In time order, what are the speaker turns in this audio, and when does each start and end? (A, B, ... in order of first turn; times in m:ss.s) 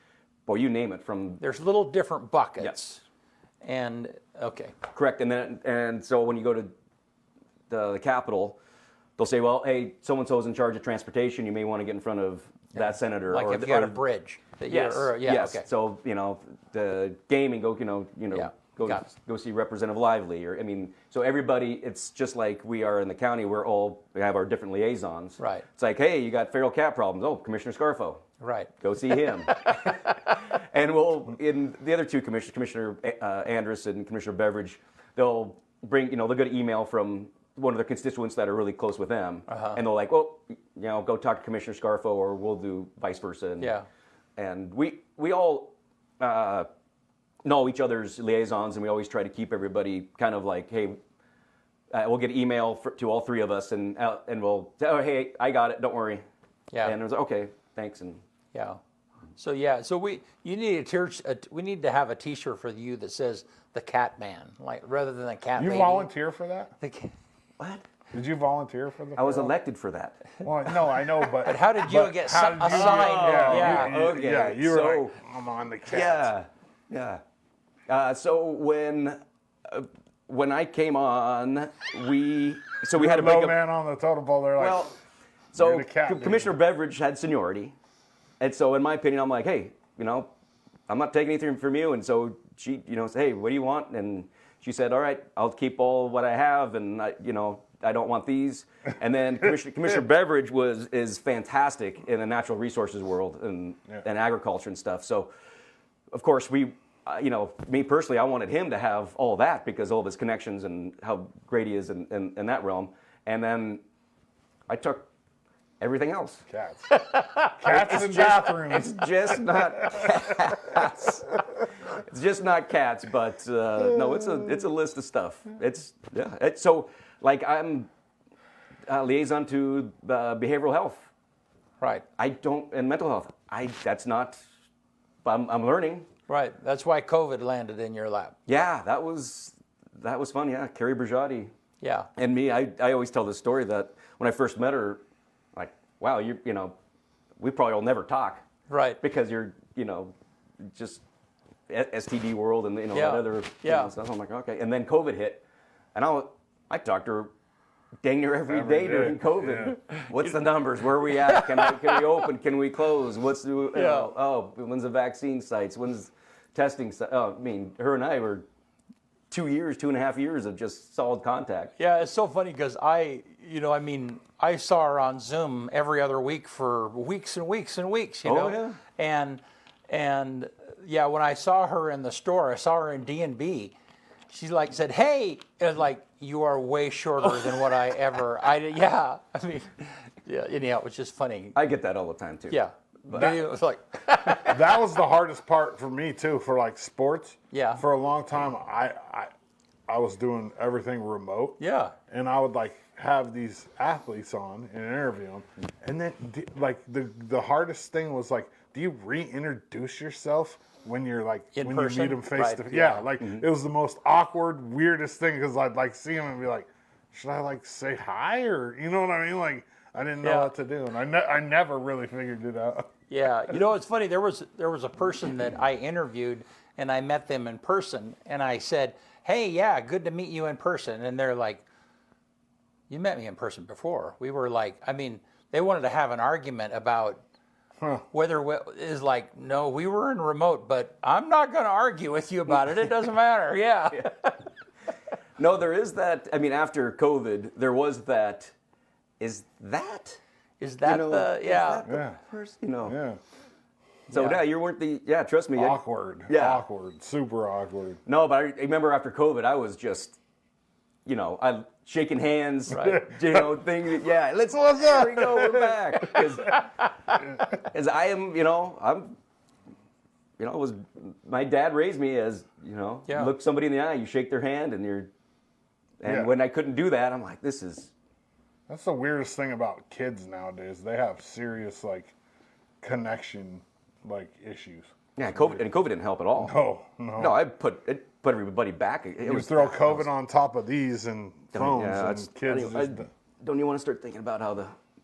0:00.5-0:01.4 A
0:01.4-0:03.0 B
0:03.6-0:04.7 B
0:04.9-0:06.7 A
0:07.7-0:08.6 A
0:09.2-0:14.0 A
0:12.7-0:15.6 B
0:14.7-0:28.2 A
0:18.3-0:19.0 B
0:25.4-0:25.7 B
0:28.4-0:30.1 B
0:28.8-0:43.7 A
0:39.5-0:39.8 B
0:43.6-0:43.9 B
0:44.4-0:46.7 A
0:47.4-0:51.0 A
0:51.9-0:56.2 A
0:56.8-0:58.2 A
0:58.5-0:58.8 B
0:59.4-1:06.1 B
1:05.6-1:06.7 C
1:06.8-1:07.1 B
1:08.1-1:09.6 C
1:09.2-1:10.2 A
1:10.4-1:16.3 C
1:11.4-1:14.0 B
1:12.7-1:15.2 A
1:15.9-1:17.2 A
1:17.9-1:23.6 A
1:23.0-1:24.9 C
1:24.6-1:25.0 A
1:25.5-1:27.8 A
1:25.6-1:26.5 C
1:28.4-1:30.3 A
1:30.9-1:45.3 A
1:46.1-1:53.8 A
1:54.7-1:55.1 A
1:55.8-1:56.4 A
1:56.5-1:56.9 C
1:56.9-1:57.5 B
1:57.6-2:00.3 C
1:57.6-2:01.3 A
2:01.8-2:07.9 A
2:08.9-2:11.1 A
2:12.2-2:14.4 A
2:15.2-2:16.1 A
2:16.3-2:18.3 B
2:18.5-2:21.5 A
2:21.8-2:22.1 B
2:22.2-2:25.0 A
2:25.5-2:26.8 A
2:27.4-2:28.4 A
2:28.7-2:29.0 B
2:29.0-2:31.0 A
2:31.7-2:35.4 A
2:32.9-2:33.9 B
2:35.9-2:37.3 A
2:38.0-2:48.5 A
2:38.5-2:39.8 C
2:41.2-2:42.0 B
2:43.8-2:44.1 B
2:49.3-2:51.7 A
2:51.8-3:03.7 B
2:58.2-2:58.8 A
3:04.3-3:11.6 B
3:07.3-3:07.7 A
3:11.5-3:13.3 A
3:12.5-3:14.7 B
3:14.5-3:19.3 C
3:17.5-3:17.8 B
3:19.9-3:21.6 C
3:21.6-3:21.9 B
3:22.1-3:42.9 C
3:31.5-3:33.1 B
3:33.2-3:33.5 A
3:40.2-3:40.5 B
3:43.1-3:51.6 B
3:52.9-3:57.2 B
3:58.1-4:04.1 B
4:05.4-4:08.5 A
4:09.2-4:10.2 A
4:10.6-4:11.8 B
4:10.8-4:13.0 A
4:11.8-4:12.2 C
4:12.8-4:13.2 C
4:14.1-4:16.6 A
4:14.1-4:14.4 B
4:15.5-4:18.0 C
4:18.0-4:20.2 A
4:21.0-4:26.7 A
4:22.7-4:23.0 B
4:22.8-4:23.5 C
4:24.7-4:25.7 C
4:27.5-4:29.2 A
4:30.4-4:35.1 A
4:36.0-4:37.9 A
4:36.0-4:36.3 C
4:38.7-4:42.1 C
4:42.8-4:45.7 C
4:45.2-4:46.6 A
4:46.4-4:47.4 C
4:47.2-4:50.1 A
4:49.2-4:53.1 C
4:51.5-4:54.7 A